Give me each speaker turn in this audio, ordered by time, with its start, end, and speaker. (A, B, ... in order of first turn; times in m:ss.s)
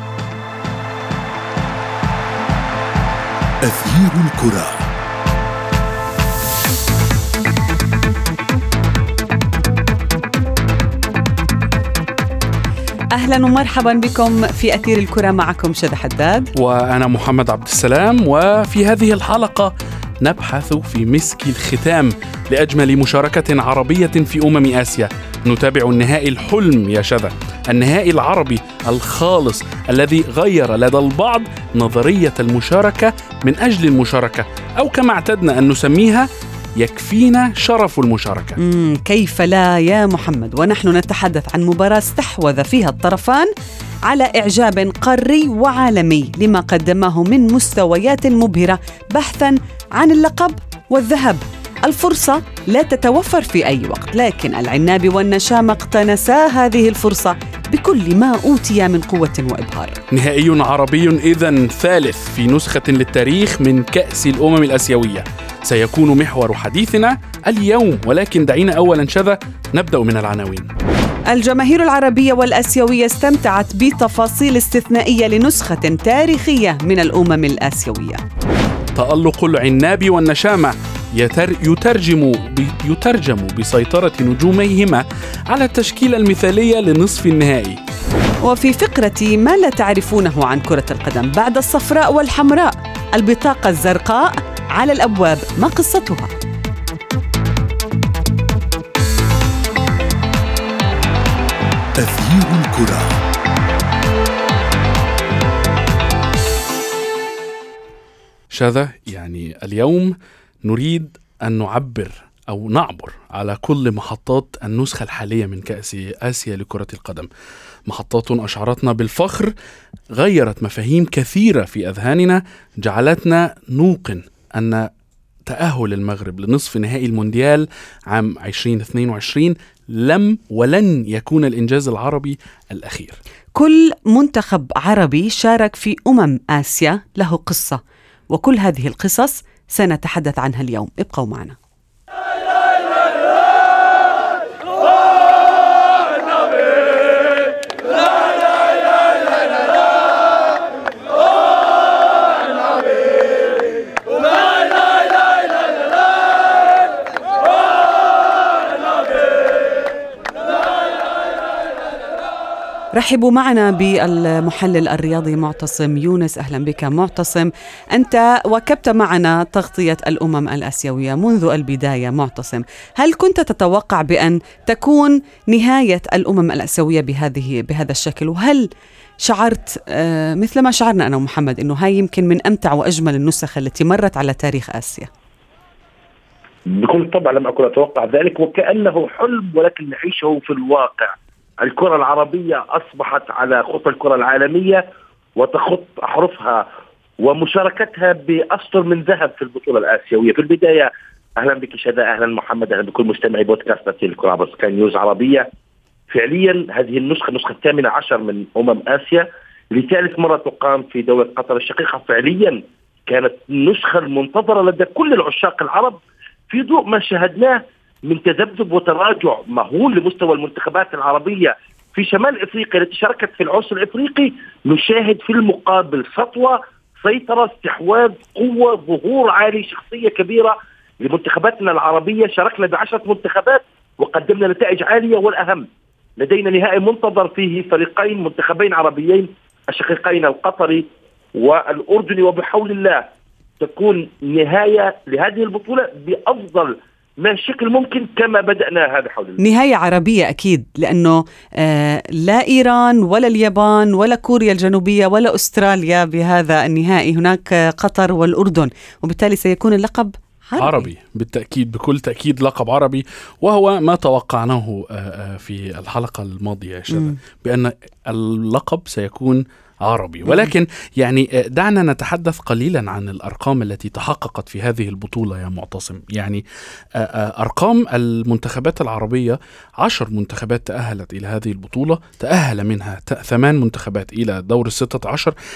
0:03.6-0:04.8 A
0:13.1-0:16.5 B
0:16.6-0:38.6 C
0:38.6-0:43.5 B
0:44.0-1:00.0 B
1:00.1-1:10.7 C
1:11.3-1:18.2 B
1:19.0-1:27.8 C
1:28.4-1:36.3 B
1:42.0-1:43.2 A
1:48.5-1:57.3 C
1:57.9-1:59.5 C
2:00.1-2:04.9 C
2:05.4-2:13.2 C
2:13.5-2:17.8 B
2:18.3-2:21.6 B
2:43.0-2:58.7 B
2:59.2-3:05.1 B
3:06.7-3:14.8 D
3:15.4-3:16.7 D
3:17.2-3:25.5 D
3:26.1-3:36.0 D
3:36.5-3:55.7 D
3:56.2-4:03.1 D
4:03.6-4:09.4 D
4:09.4-4:20.9 B
4:20.6-4:36.4 C
4:30.3-4:30.5 B
4:37.0-4:45.3 C